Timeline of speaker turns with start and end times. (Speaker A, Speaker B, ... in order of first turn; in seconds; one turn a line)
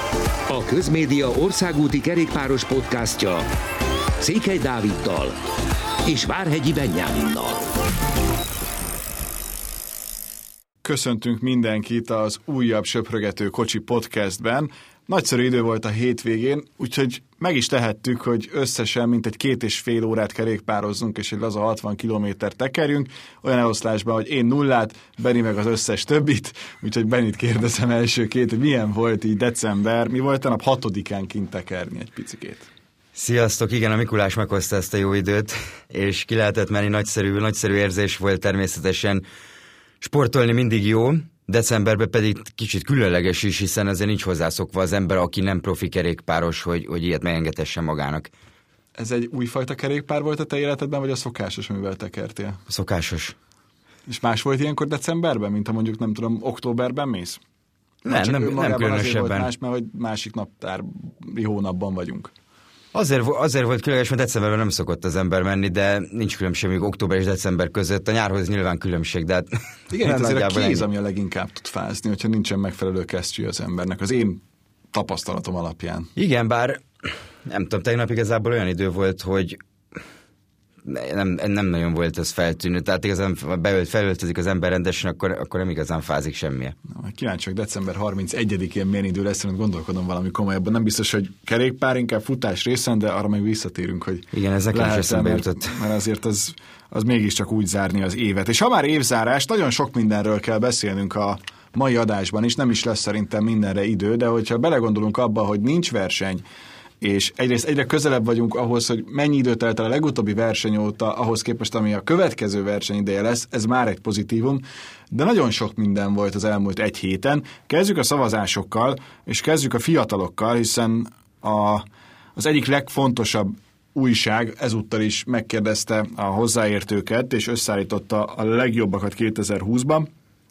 Speaker A: 0.5-3.5
Speaker A: 4.2-5.3
Speaker A: 6.0-7.7
Speaker B: 10.8-32.7
Speaker C: 33.1-39.2
Speaker C: 40.0-48.3
Speaker B: 49.0-52.6
Speaker C: 52.7-53.3
Speaker B: 54.1-57.4
Speaker B: 58.0-62.3
Speaker C: 58.0-59.5
Speaker C: 62.9-70.8
Speaker B: 69.9-74.4
Speaker B: 74.9-76.1
Speaker C: 76.2-79.6
Speaker C: 80.8-86.7
Speaker B: 86.9-106.4
Speaker C: 94.3-95.8
Speaker B: 107.0-130.1